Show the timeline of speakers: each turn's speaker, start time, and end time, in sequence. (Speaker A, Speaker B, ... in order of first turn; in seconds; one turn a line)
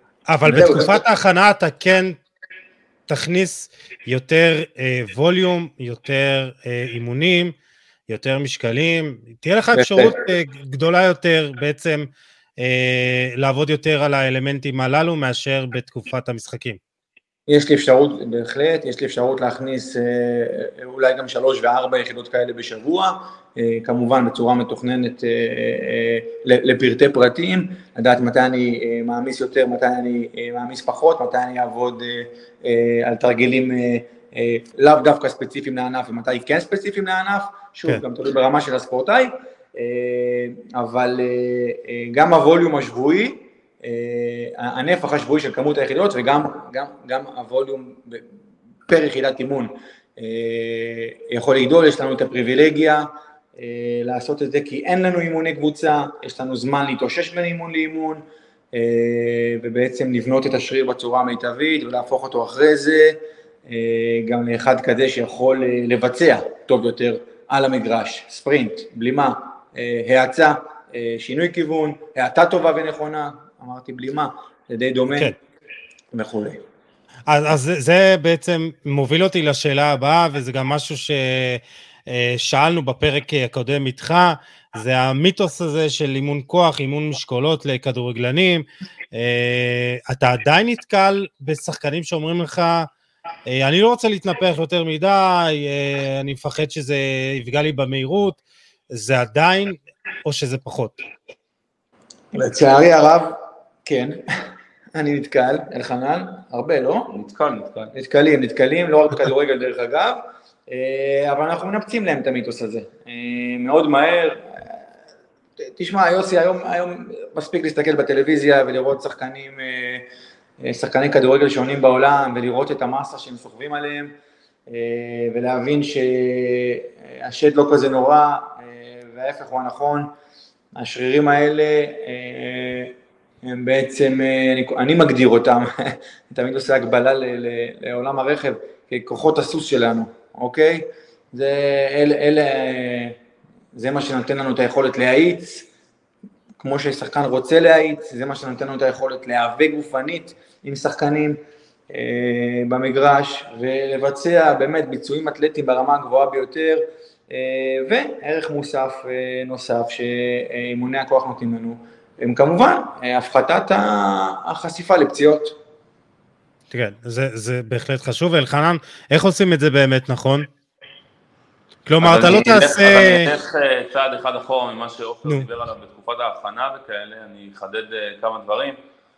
Speaker A: 0.3-2.2
Speaker B: 0.5-1.0
Speaker A: 3.1-7.5
Speaker A: 8.1-16.8
Speaker B: 9.7-10.2
Speaker B: 17.5-48.2
Speaker B: 48.9-75.3
Speaker B: 76.1-76.6
Speaker A: 77.3-92.9
Speaker A: 93.5-98.4
Speaker A: 98.9-101.0
Speaker B: 102.3-104.2
Speaker B: 105.0-107.1
Speaker C: 107.1-107.9
Speaker B: 107.9-114.8
Speaker B: 115.6-120.1
Speaker B: 120.6-124.1
Speaker B: 124.7-130.1
Speaker B: 130.8-143.2
Speaker B: 143.8-145.7
Speaker B: 146.6-165.6
Speaker A: 166.7-170.5
Speaker A: 171.9-173.3
Speaker C: 172.0-178.8